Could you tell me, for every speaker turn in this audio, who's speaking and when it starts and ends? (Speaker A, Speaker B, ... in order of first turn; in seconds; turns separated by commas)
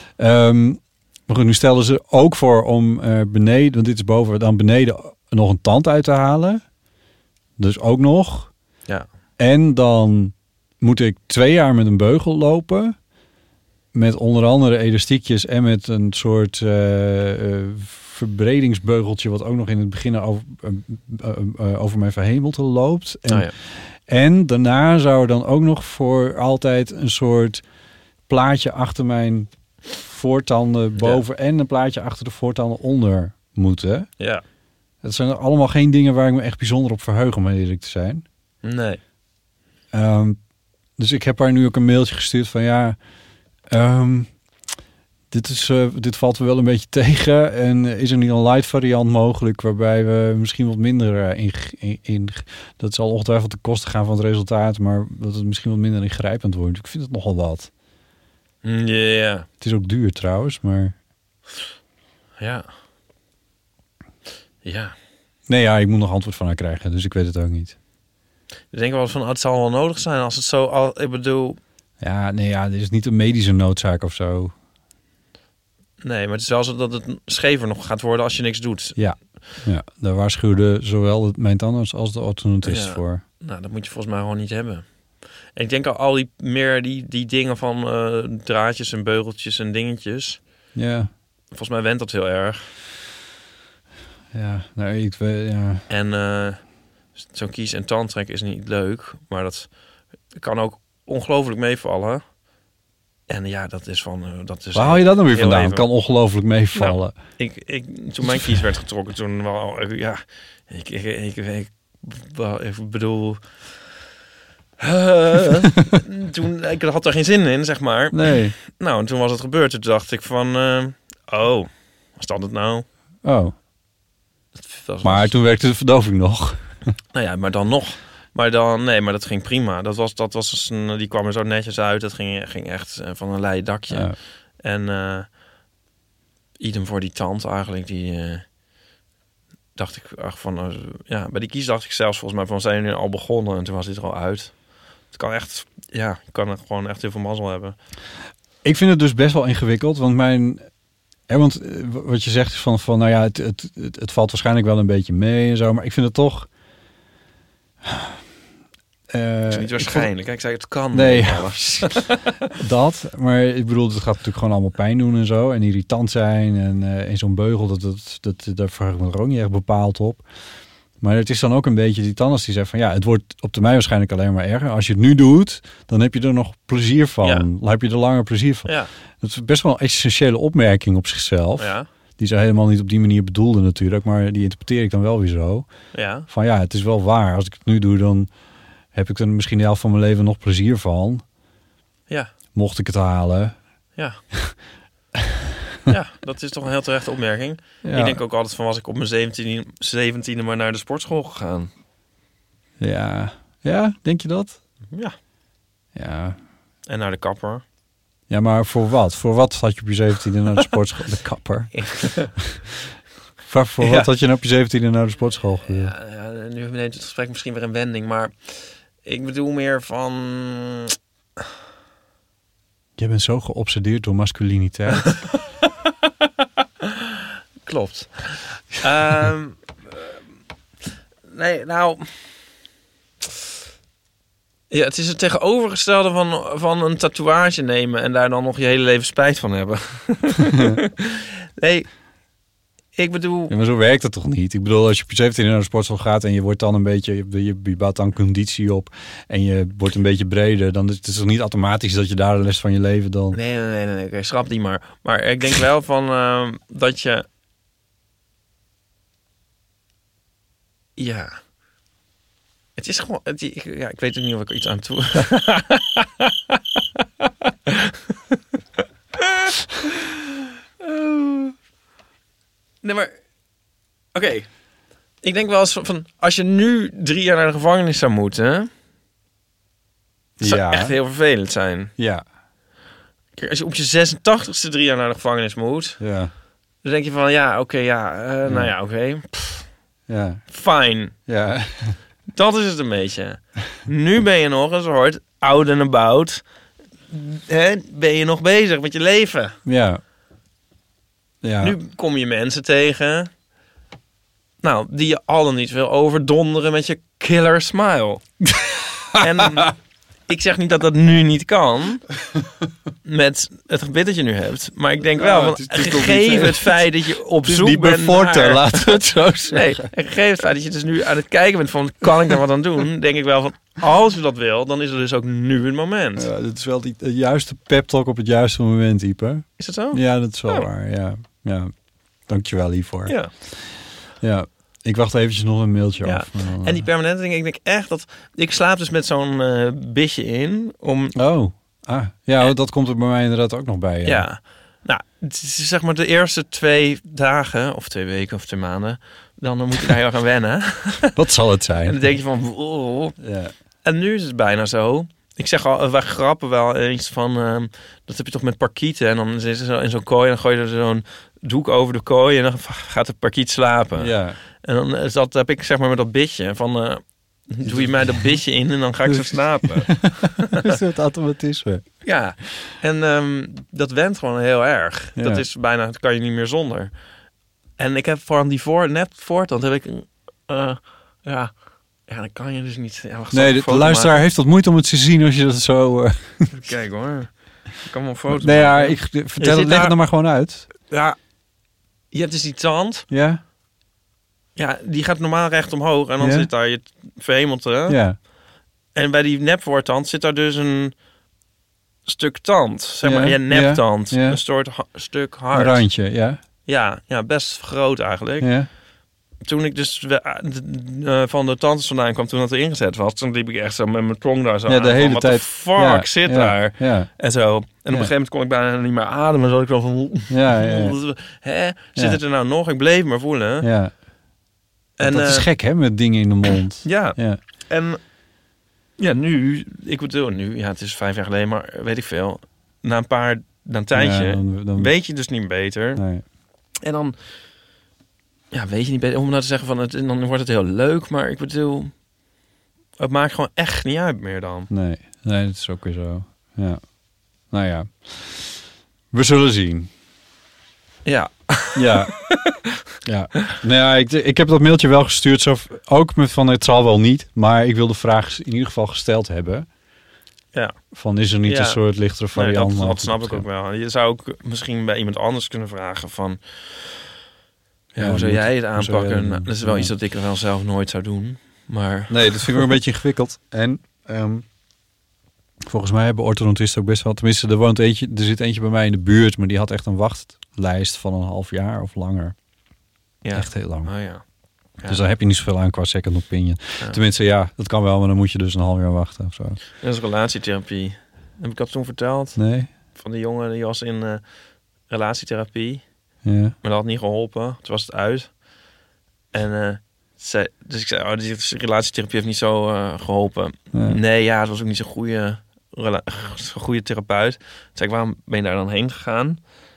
Speaker A: 0.2-6.6, Speaker A: 7.6-8.5, Speaker A: 9.4-12.9, Speaker A: 13.9-27.6, Speaker B: 23.3-23.5, Speaker A: 28.3-34.1, Speaker B: 31.0-31.2, Speaker A: 35.0-38.2, Speaker B: 38.6-39.0, Speaker A: 39.9-40.4, Speaker A: 41.0-43.0, Speaker A: 43.7-44.3, Speaker A: 45.3-57.7, Speaker B: 58.6-59.5, Speaker A: 59.6-60.9, Speaker B: 62.4-62.7, Speaker B: 64.6-64.9, Speaker A: 65.5-67.8, Speaker B: 68.7-71.6, Speaker A: 72.0-74.5, Speaker B: 76.0-79.0, Speaker A: 79.0-83.2, Speaker B: 82.6-84.9, Speaker B: 85.5-90.4, Speaker A: 90.7-91.1, Speaker B: 91.5-92.7, Speaker A: 94.3-95.8, Speaker B: 95.9-96.6, Speaker B: 97.2-99.7, Speaker B: 100.3-102.2, Speaker B: 103.3-105.9, Speaker A: 104.7-107.2, Speaker B: 106.7-113.4, Speaker A: 108.2-108.6, Speaker B: 114.8-122.8, Speaker A: 118.1-118.5, Speaker A: 123.2-123.5, Speaker B: 124.5-125.3, Speaker A: 125.0-126.7, Speaker B: 127.1-135.3, Speaker A: 133.9-134.2, Speaker B: 136.6-138.4, Speaker B: 139.7-147.7, Speaker A: 148.6-150.7, Speaker A: 151.3-156.5, Speaker A: 157.8-158.2, Speaker A: 159.1-160.1, Speaker B: 159.5-162.3, Speaker A: 160.9-170.2, Speaker A: 171.0-185.7, Speaker B: 177.2-177.5, Speaker B: 178.6-178.9, Speaker B: 181.6-181.9, Speaker B: 185.9-186.3, Speaker A: 186.2-188.3, Speaker A: 188.9-191.2, Speaker A: 192.5-193.6, Speaker B: 193.9-194.2, Speaker B: 195.9-201.7, Speaker A: 197.8-198.2, Speaker A: 202.8-204.6, Speaker A: 205.9-206.4, Speaker B: 206.9-207.6, Speaker A: 208.3-212.4, Speaker B: 211.7-212.3, Speaker A: 213.4-215.9, Speaker B: 213.8-214.1, Speaker B: 215.6-220.9, Speaker A: 223.0-225.2, Speaker B: 227.6-229.6, Speaker B: 231.3-232.1, Speaker B: 234.7-241.9, Speaker A: 240.5-240.8, Speaker B: 242.9-243.5, Speaker A: 243.5-253.4, Speaker B: 253.3-257.2, Speaker B: 261.0-261.4, Speaker B: 262.8-266.5, Speaker B: 267.7-267.9, Speaker B: 269.2-269.5, Speaker B: 270.8-271.5, Speaker B: 272.8-273.1, Speaker B: 274.1-274.5, Speaker B: 275.2-278.7, Speaker A: 280.4-280.9, Speaker B: 280.4-281.9, Speaker A: 282.0-282.2, Speaker B: 283.4-286.0, Speaker A: 286.0-286.3, Speaker B: 286.8-289.7, Speaker A: 288.4-288.7, Speaker A: 290.1-290.4, Speaker B: 290.5-291.1, Speaker A: 291.2-292.0, Speaker B: 292.3-296.4, Speaker B: 297.1-299.6, Speaker A: 299.6-300.0, Speaker A: 301.4-301.8, Speaker B: 301.6-303.3, Speaker B: 304.6-308.3, Speaker B: 309.1-309.7, Speaker B: 310.3-312.1, Speaker B: 313.0-326.3, Speaker A: 315.1-316.9, Speaker A: 317.4-319.9, Speaker A: 326.1-331.7, Speaker B: 329.6-330.7, Speaker A: 332.3-333.4, Speaker B: 333.1-333.3, Speaker A: 334.2-336.9, Speaker B: 336.0-341.1, Speaker A: 341.1-344.3, Speaker B: 344.0-351.1, Speaker A: 351.1-352.0, Speaker B: 351.8-353.1, Speaker A: 353.2-353.5, Speaker B: 353.8-370.7, Speaker A: 364.0-364.4, Speaker A: 367.6-368.4, Speaker A: 369.1-371.9, Speaker B: 372.0-376.9, Speaker A: 375.1-375.4, Speaker B: 377.8-384.2, Speaker A: 383.3-386.5, Speaker B: 386.5-390.0, Speaker A: 388.3-390.6, Speaker B: 390.9-391.2, Speaker B: 392.1-393.1, Speaker A: 393.1-393.4, Speaker B: 394.6-398.0, Speaker A: 396.2-396.5, Speaker A: 397.9-398.2, Speaker B: 398.9-400.9, Speaker B: 402.1-405.8, Speaker A: 403.0-404.4, Speaker A: 405.5-406.4, Speaker B: 406.6-408.5, Speaker A: 408.4-408.7, Speaker B: 409.4-423.7, Speaker A: 414.7-417.1, Speaker A: 420.3-421.0, Speaker A: 421.9-422.2, Speaker A: 423.6-423.9, Speaker B: 425.0-425.5, Speaker A: 425.0-427.4, Speaker B: 426.8-428.0, Speaker B: 429.0-436.0, Speaker A: 433.9-434.9, Speaker A: 435.9-436.2, Speaker B: 436.8-437.1, Speaker B: 438.5-441.9, Speaker B: 443.0-444.7, Speaker A: 444.7-446.9, Speaker A: 447.5-448.6, Speaker A: 449.1-449.9, Speaker B: 451.0-452.5, Speaker A: 451.7-452.1, Speaker A: 453.0-459.7, Speaker A: 460.9-463.4, Speaker B: 461.4-461.8, Speaker B: 462.3-466.4, Speaker B: 467.9-472.6, Speaker A: 468.0-469.9, Speaker A: 472.1-474.5, Speaker A: 475.6-482.4, Speaker B: 483.2-484.2, Speaker A: 483.3-484.0, Speaker B: 484.7-485.0, Speaker A: 484.8-489.6, Speaker B: 489.8-494.2, Speaker A: 492.4-492.7, Speaker B: 494.8-495.9, Speaker A: 496.2-496.6, Speaker B: 496.6-498.4, Speaker B: 499.3-509.4, Speaker A: 503.7-504.0